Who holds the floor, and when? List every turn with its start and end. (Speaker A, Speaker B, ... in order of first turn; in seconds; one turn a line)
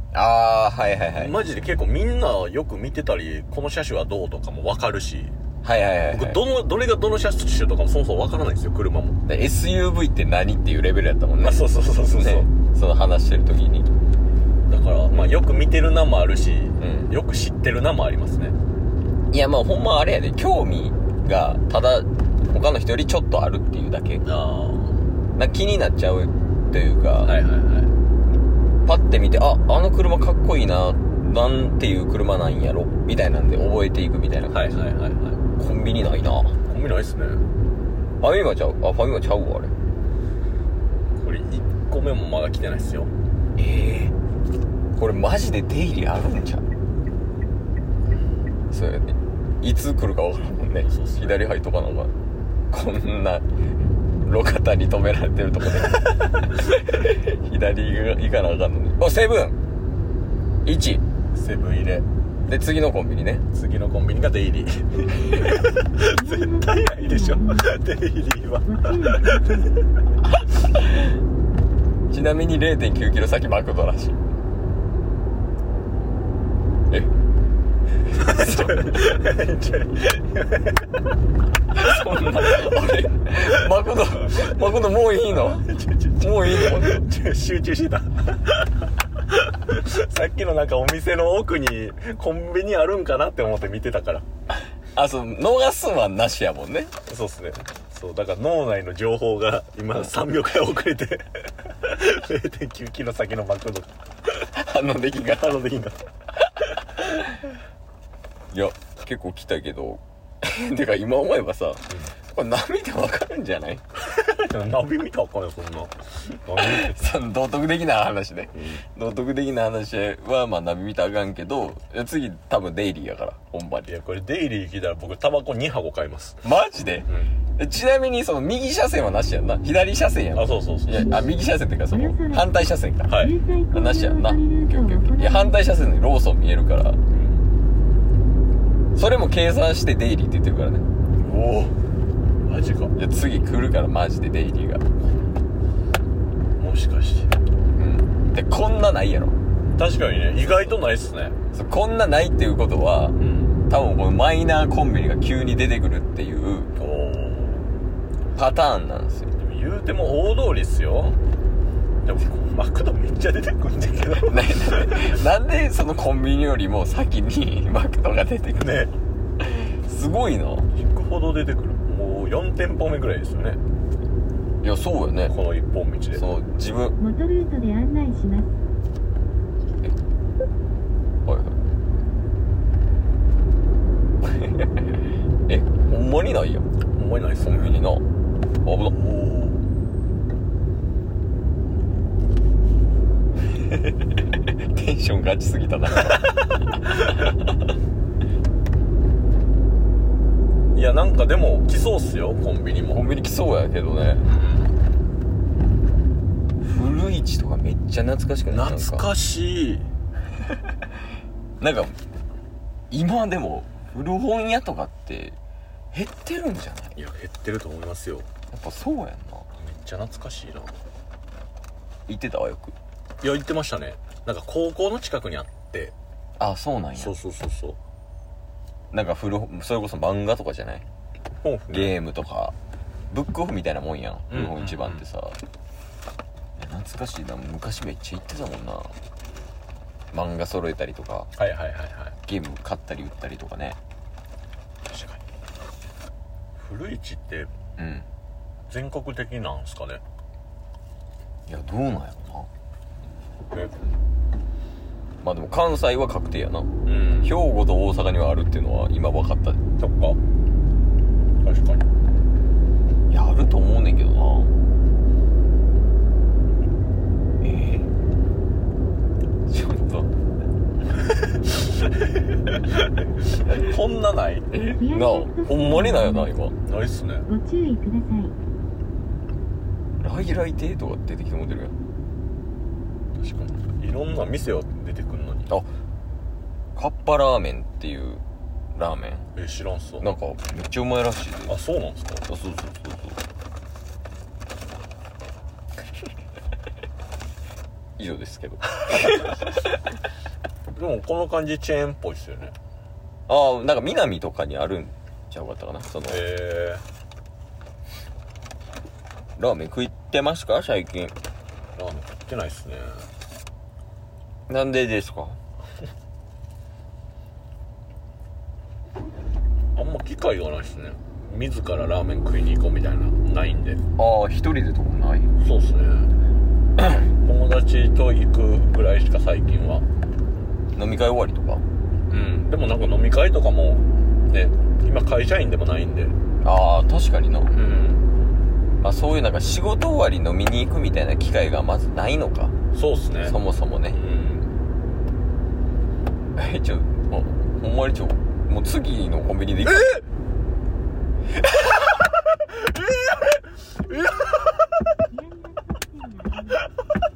Speaker A: 0.1-1.5
Speaker B: 1.1-5.3
Speaker A: 5.6-6.4
Speaker B: 6.1-9.2
Speaker A: 9.3-13.9
Speaker B: 11.4-12.5
Speaker B: 14.7-18.6
Speaker A: 16.8-17.1
Speaker A: 19.3-24.3
Speaker B: 24.2-25.1
Speaker A: 25.4-27.4
Speaker B: 27.2-27.9
Speaker A: 28.9-34.9
Speaker B: 34.5-35.4
Speaker A: 35.6-36.6
Speaker B: 36.7-37.4
Speaker A: 38.2-39.7
Speaker B: 41.2-43.1
Speaker A: 43.6-44.1
Speaker A: 45.0-46.6
Speaker A: 48.7-52.1
Speaker B: 50.8-51.5
Speaker A: 52.7-53.5
Speaker A: 54.2-59.6
Speaker A: 60.6-61.0
Speaker B: 61.3-62.1
Speaker A: 62.5-63.5
Speaker B: 63.5-69.8
Speaker C: 66.2-67.6
Speaker C: 68.7-69.6
Speaker A: 72.1-74.2
Speaker B: 78.2-80.9
Speaker A: 78.3-79.0
Speaker A: 81.7-85.7
Speaker B: 85.2-94.3
Speaker A: 86.2-87.1
Speaker A: 95.0-97.0
Speaker B: 97.1-103.9
Speaker A: 104.5-105.6
Speaker B: 105.3-106.0
Speaker A: 108.5-113.8
Speaker B: 114.0-117.0
Speaker A: 116.6-123.9
Speaker B: 118.5-118.8
Speaker B: 123.9-126.4
Speaker A: 126.4-133.2
Speaker B: 130.3-131.2
Speaker C: 131.9-132.4
Speaker B: 133.1-133.3
Speaker C: 133.2-135.6
Speaker A: 133.7-137.0
Speaker B: 137.1-137.4
Speaker A: 139.0-140.9
Speaker B: 141.2-141.7
Speaker B: 142.4-142.9
Speaker A: 143.0-144.8
Speaker B: 146.6-147.3
Speaker A: 147.8-149.4
Speaker B: 149.8-151.4
Speaker A: 151.5-156.7
Speaker B: 153.2-153.6
Speaker B: 156.8-157.7
Speaker A: 158.3-159.3
Speaker B: 159.3-161.2
Speaker B: 162.0-165.2
Speaker A: 164.2-168.9
Speaker B: 168.6-168.9
Speaker A: 169.4-170.7
Speaker B: 170.7-173.6
Speaker A: 174.6-175.4
Speaker B: 175.3-176.3
Speaker A: 176.1-177.0
Speaker C: 177.0-178.6
Speaker A: 181.3-181.6
Speaker A: 184.2-186.7
Speaker B: 186.9-187.8
Speaker A: 187.4-188.0
Speaker A: 188.6-189.0
Speaker B: 188.9-189.7
Speaker A: 193.6-197.5
Speaker B: 200.7-203.0
Speaker A: 202.9-204.3
Speaker B: 204.3-204.7
Speaker A: 206.6-209.1
Speaker B: 208.5-209.9
Speaker A: 211.6-212.0
Speaker A: 212.9-215.4
Speaker A: 215.9-217.0
Speaker B: 217.0-218.3
Speaker A: 218.5-219.5
Speaker B: 219.6-220.8
Speaker A: 222.1-222.8
Speaker B: 223.2-225.9
Speaker A: 226.4-227.2
Speaker B: 227.0-227.8
Speaker A: 228.9-230.8
Speaker B: 231.4-232.0
Speaker A: 231.7-232.6
Speaker A: 233.1-235.4
Speaker B: 234.3-235.1
Speaker A: 236.6-238.9
Speaker A: 240.1-241.3
Speaker B: 241.4-242.2
Speaker A: 242.3-243.8
Speaker B: 244.9-245.2
Speaker B: 246.6-247.5
Speaker A: 247.8-248.1
Speaker B: 248.7-250.0
Speaker A: 251.5-252.5
Speaker B: 253.5-253.8
Speaker A: 255.2-256.7
Speaker B: 256.9-257.4
Speaker A: 257.2-259.6
Speaker B: 259.8-260.2
Speaker B: 261.4-261.8
Speaker A: 263.1-264.5
Speaker A: 267.4-267.9
Speaker A: 269.5-270.1
Speaker B: 271.3-271.6
Speaker B: 272.2-274.5
Speaker A: 274.5-276.6
Speaker C: 274.8-276.3
Speaker B: 276.6-277.3
Speaker C: 277.3-278.4
Speaker A: 280.0-281.8
Speaker B: 283.2-285.5
Speaker A: 286.8-288.2
Speaker A: 288.8-289.3
Speaker B: 289.4-290.1
Speaker A: 290.0-291.6
Speaker B: 291.5-292.2
Speaker A: 292.2-293.2
Speaker A: 298.0-299.5
Speaker B: 300.8-302.6
Speaker A: 303.3-306.2
Speaker B: 306.1-306.8
Speaker A: 309.4-311.1
Speaker B: 311.8-313.0
Speaker A: 314.5-315.4
Speaker B: 319.8-323.8
Speaker A: 324.0-325.3
Speaker B: 325.4-326.1
Speaker B: 327.2-329.9
Speaker A: 330.8-331.6
Speaker B: 332.1-336.2
Speaker A: 336.4-337.5
Speaker B: 337.5-338.1
Speaker A: 338.8-342.5
Speaker B: 342.7-343.4
Speaker A: 343.2-344.0
Speaker B: 343.9-344.5
Speaker A: 346.4-350.0
Speaker B: 349.7-350.0
Speaker B: 352.4-354.9
Speaker C: 355.1-356.7